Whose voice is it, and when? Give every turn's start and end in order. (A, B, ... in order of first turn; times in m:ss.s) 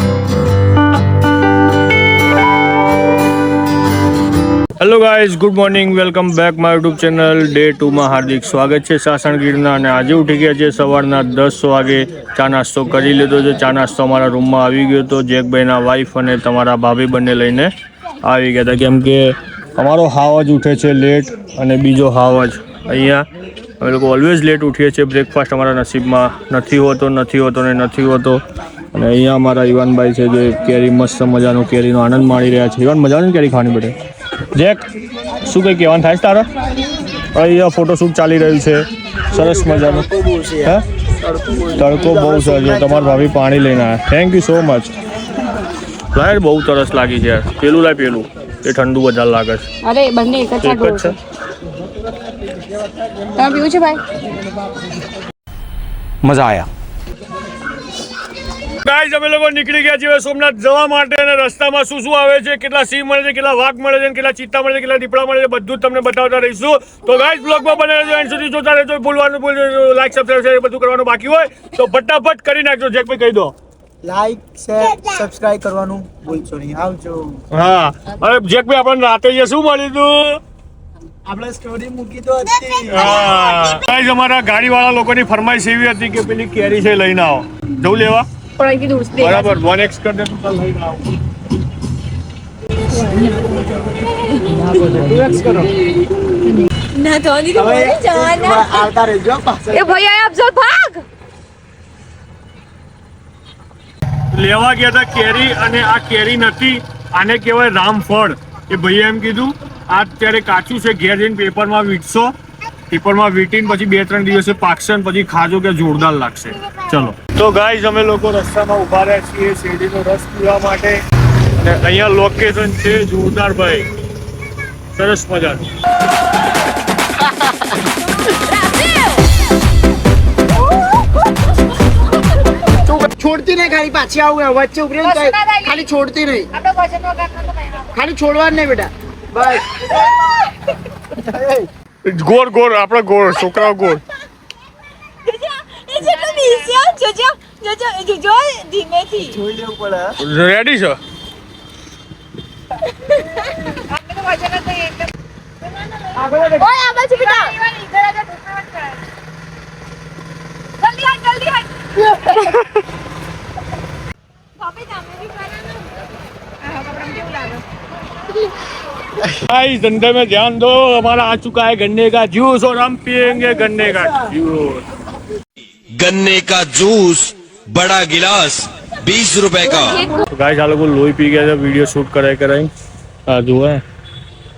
0:04.8-0:17.7 A
0:18.2-0:23.2 A
0:23.8-0:28.4 A
0:28.9-0:33.9 A
0:34.5-0:34.8 A
0:35.4-0:36.5 A
0:37.3-0:40.1 A
0:39.3-0:43.0 B
0:41.7-0:44.9 A
0:46.1-0:49.6 A
0:49.8-0:51.1 C
0:50.6-0:51.1 A
0:53.4-0:54.0 C
0:58.8-1:13.5 A
1:14.0-1:17.4 B
1:17.5-1:20.4 A
1:21.2-1:23.2 B
1:22.9-1:28.3 A
1:28.6-1:29.5 C
1:29.1-1:31.1 A
1:33.0-1:33.3 C
1:34.9-1:35.6 B
1:36.6-1:38.8 C
1:37.5-1:39.9 B
1:39.7-1:41.0 C
1:44.3-1:52.3 A
1:52.9-2:01.0 A
2:01.5-2:03.9 A
2:04.9-2:05.6 A
2:12.8-2:16.5 B
2:16.8-2:17.5 C
2:17.7-2:20.1 B
2:21.1-2:21.7 B
2:22.0-2:24.0 A
2:25.2-2:29.4 C
2:29.3-2:30.1 B
2:30.2-2:31.0 A
2:33.0-2:35.0 C
2:36.0-2:38.6 C
2:40.8-2:42.5 C
2:42.3-2:42.6 A
2:44.6-2:45.7 C
2:49.2-2:54.8 A
2:56.0-3:00.0 D
3:00.2-3:02.7 A
3:03.3-3:03.8 A